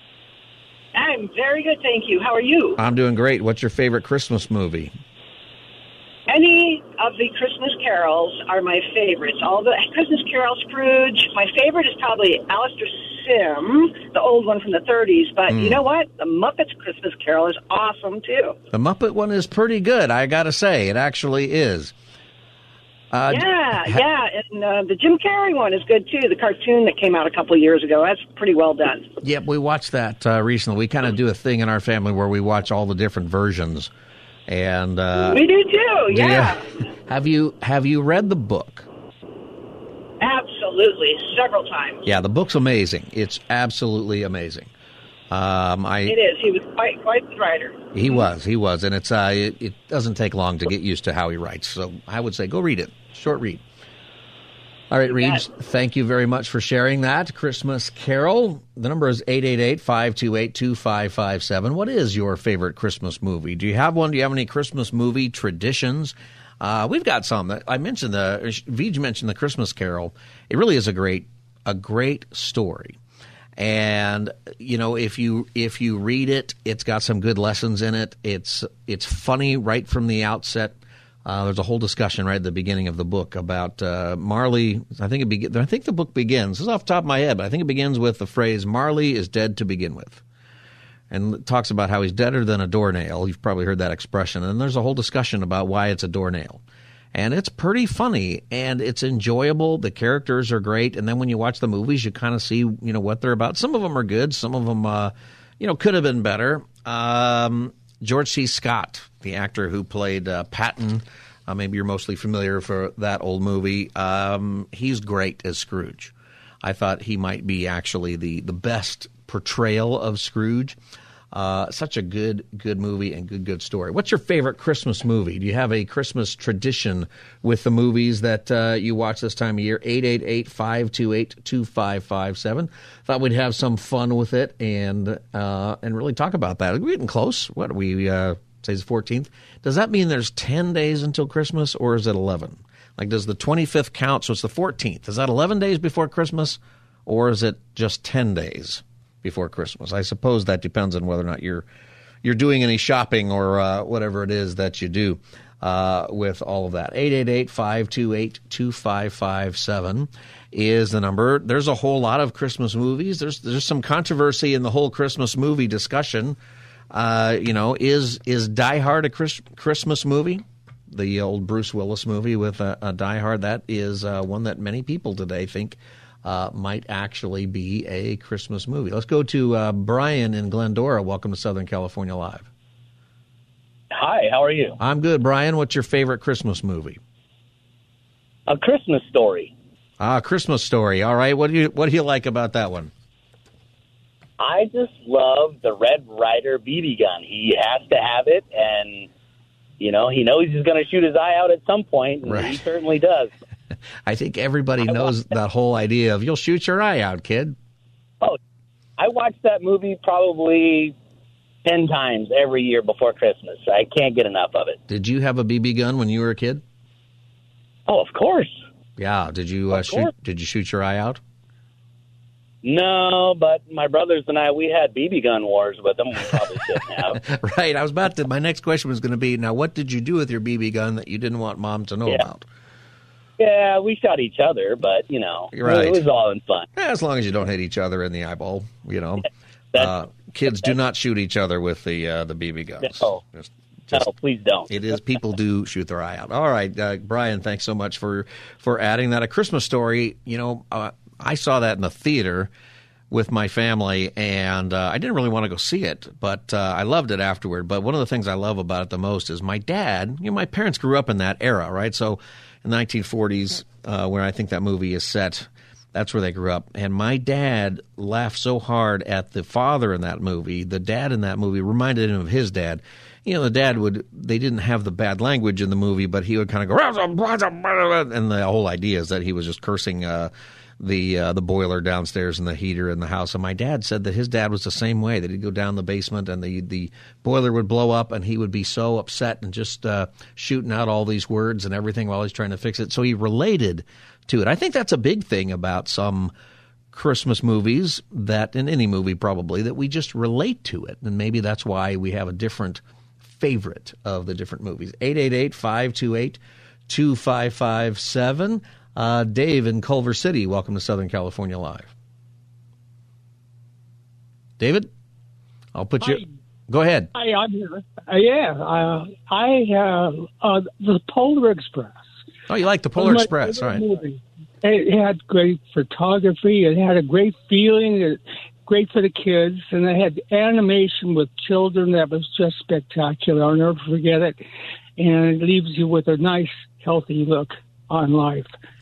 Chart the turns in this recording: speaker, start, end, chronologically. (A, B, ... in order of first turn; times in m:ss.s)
0:00.9-0:02.8 A
0:02.8-0:04.9 B
0:06.3-0:18.6 A
0:15.5-0:15.8 B
0:18.7-0:21.9 B
0:23.1-0:24.0 B
0:23.3-0:29.1 A
0:29.2-0:33.9 B
0:34.5-0:35.5 B
0:35.2-0:36.7 A
0:36.1-0:38.9 B
0:40.2-0:42.0 A
0:42.0-0:44.7 B
0:45.3-0:46.2 B
0:46.1-0:48.3 A
0:47.9-0:53.6 B
0:54.9-1:13.0 B
0:55.1-0:55.4 A
1:13.6-1:30.2 B
1:31.1-1:36.6 B
1:37.1-2:00.8 B
2:01.3-2:31.7 B
2:32.2-2:46.4 B
2:46.9-3:02.5 B
3:03.9-3:04.8 C
3:04.8-3:07.0 B
3:08.5-3:09.5 C
3:10.0-3:12.9 B
3:14.4-3:19.1 C
3:19.8-3:23.3 C
3:22.2-3:22.6 B
3:24.1-3:27.6 B
3:29.0-3:30.9 C
3:31.6-3:34.8 C
3:34.9-3:36.6 B
3:37.9-3:38.6 C
3:39.0-3:41.2 B
3:39.7-3:40.1 C
3:42.6-3:47.2 C
3:47.1-3:52.4 B
3:53.4-3:56.7 C
3:55.5-3:56.0 B
3:56.8-4:04.1 B
4:02.8-4:03.2 C
4:03.9-4:04.7 C
4:04.7-4:12.5 B
4:13.1-4:56.3 B
4:56.9-5:02.8 B
5:03.3-5:11.9 B
5:14.6-5:14.9 B
5:15.8-5:17.1 B
5:17.2-5:22.0 D
5:22.5-5:23.8 B
5:23.0-5:34.4 D
5:35.0-5:38.5 D